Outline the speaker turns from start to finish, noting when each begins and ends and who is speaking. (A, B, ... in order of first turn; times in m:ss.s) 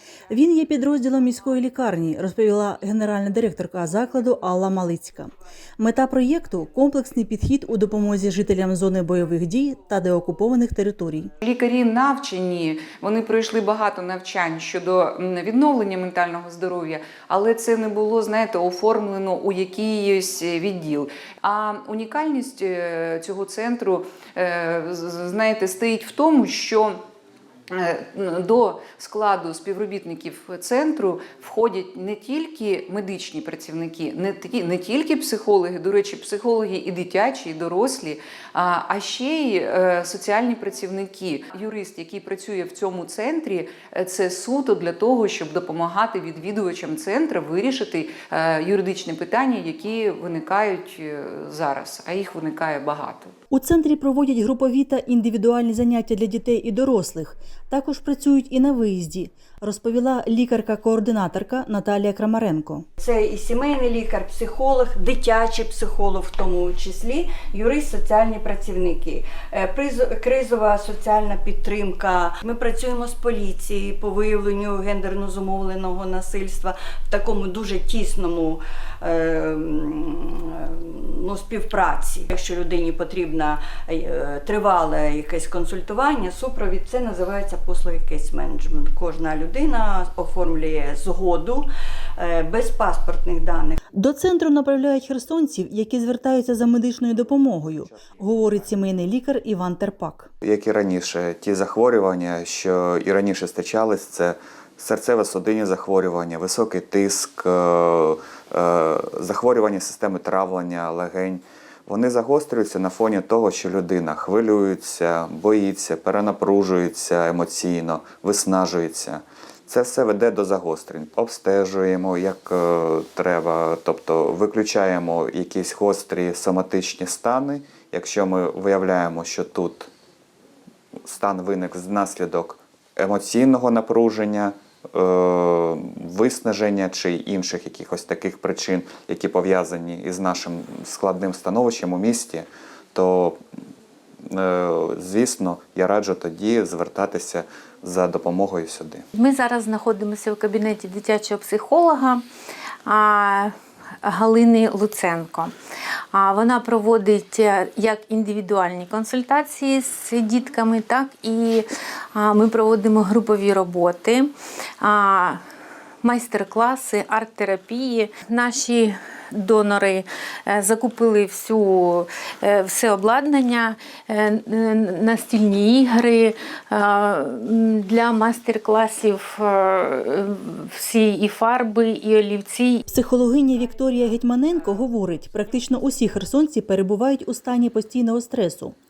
0:00.3-0:11.3 A
0:11.4-0:27.0 B
0:27.7-0:53.3 B
0:53.5-1:02.8 A
1:03.0-1:31.7 C
1:32.2-1:33.8 C
1:34.0-1:40.3 A
1:40.4-2:09.9 D
2:11.1-2:23.4 D
2:24.3-2:29.0 D
2:29.1-2:32.2 E
2:32.9-2:35.5 E
2:36.1-2:44.3 E
2:44.8-2:45.4 E
2:46.0-3:02.8 E
3:02.9-3:08.8 A